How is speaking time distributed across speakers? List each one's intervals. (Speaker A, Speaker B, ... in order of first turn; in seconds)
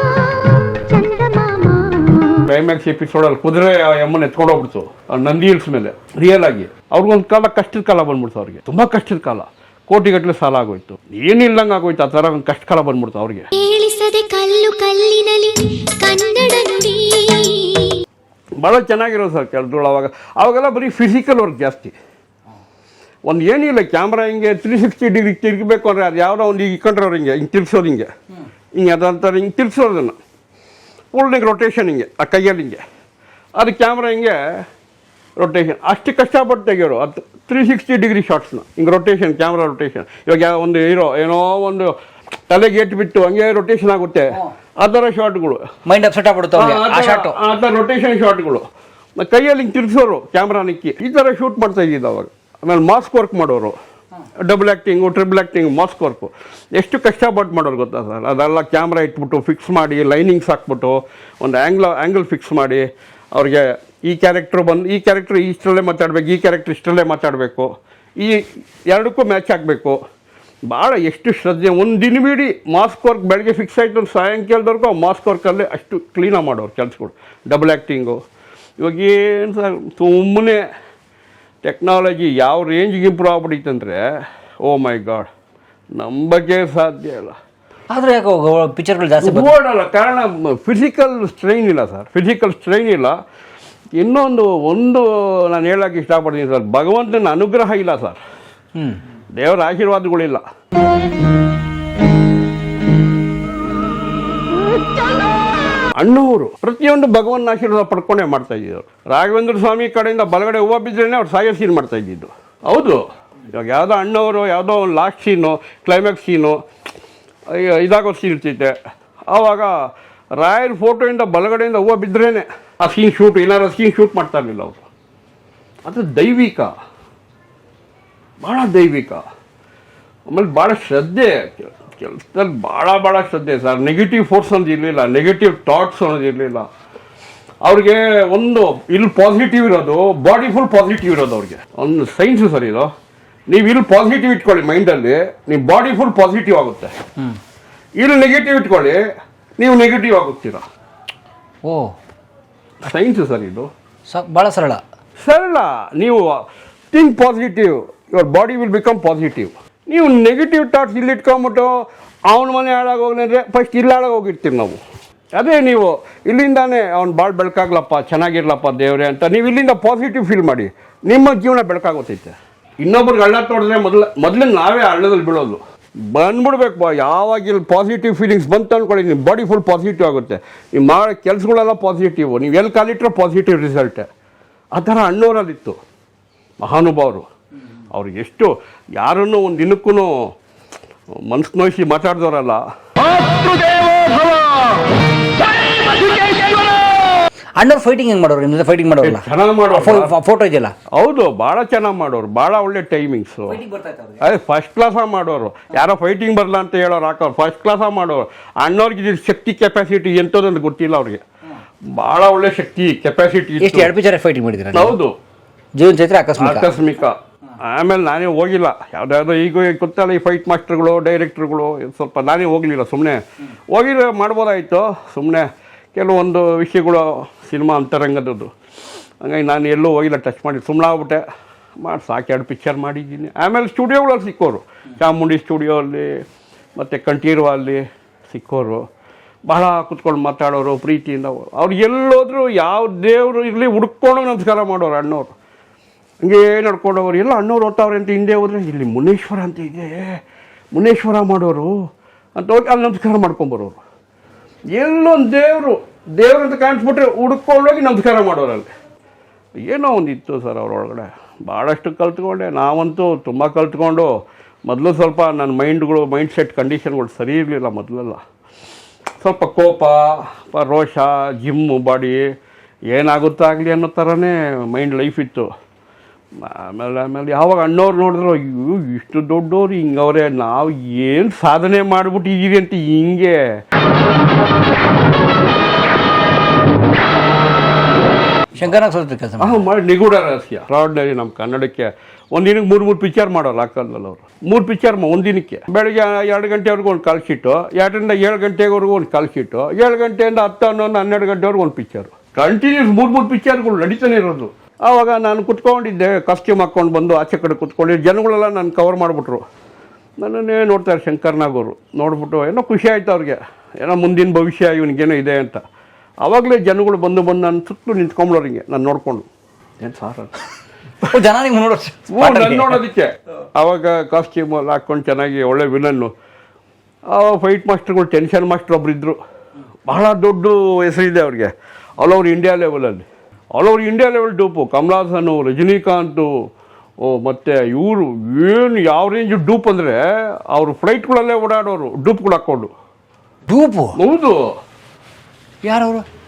Speaker A: 1.0-1.9, 13.6-17.9
Speaker B: 2.5-13.5, 18.6-21.9, 23.2-28.1, 28.8-30.2, 31.1-32.8, 33.5-34.6, 35.4-41.9, 42.5-45.6, 46.5-48.6, 49.2-53.8, 54.4-70.0, 70.7-78.2, 78.8-80.6, 81.6-84.0, 84.6-85.3, 85.9-87.3, 89.2-93.2, 94.0-98.2, 99.3-100.4, 106.0-116.6, 117.5-118.8, 119.3-119.7, 120.3-124.8, 125.8-126.7, 128.4-129.2, 130.3-136.7, 137.6-142.9, 143.5-146.9, 148.0-149.0, 149.6-150.6, 152.8-153.7, 155.2-156.3, 156.9-164.8, 165.3-175.6, 176.1-184.1, 184.7-185.8, 186.6-187.2, 187.9-190.2, 191.3-192.6, 199.0-200.1, 200.9-203.6, 204.2-211.2, 211.9-213.9, 214.7-215.2, 216.4-223.2, 223.7-228.5, 229.2-231.2, 231.8-236.2, 236.8-238.8, 239.5-245.3, 246.2-250.2, 250.7-251.7, 252.3-253.8, 254.7-258.7, 259.6-264.1, 264.7-268.2, 269.2-272.2, 272.9-275.5, 276.4-283.4, 289.4-309.4, 310.2-315.6, 316.2-319.2, 319.8-320.3, 322.1-326.1, 327.1-329.2, 329.9-336.3, 337.0-342.7, 344.0-344.5
Speaker C: 45.9-47.4, 87.9-89.5, 151.6-151.9, 154.1-154.8, 197.6-200.7, 203.4-204.2, 213.6-214.9, 215.7-216.7, 288.6-289.6, 321.1-322.8, 343.5-344.0, 345.6-346.0